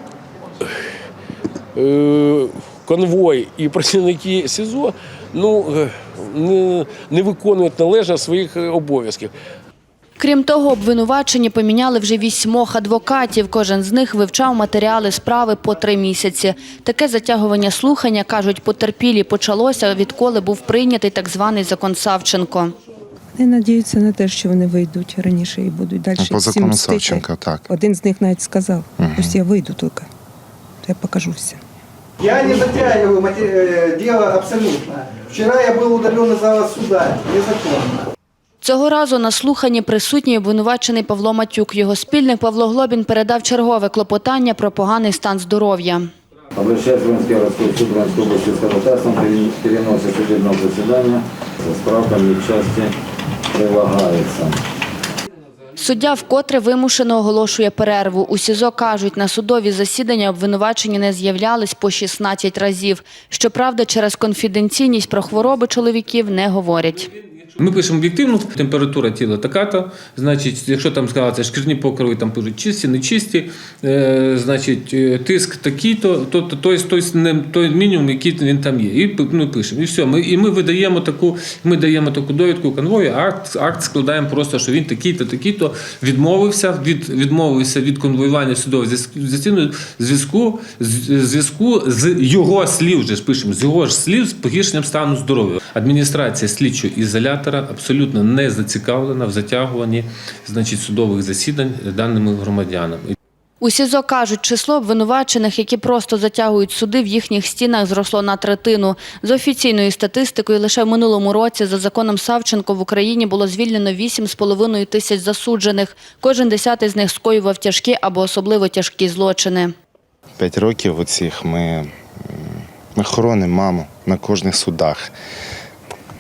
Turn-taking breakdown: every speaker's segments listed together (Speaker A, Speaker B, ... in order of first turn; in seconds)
Speaker A: 1.8-9.3
Speaker B: 10.2-22.7, 38.6-46.1, 55.8-67.1, 103.6-119.7
Speaker C: 23.4-30.1, 30.8-31.6
Speaker D: 26.2-27.7, 29.0-29.4, 120.4-125.1
Speaker E: 32.2-38.1
Speaker F: 46.5-52.9, 53.5-54.6
Speaker G: 67.6-103.1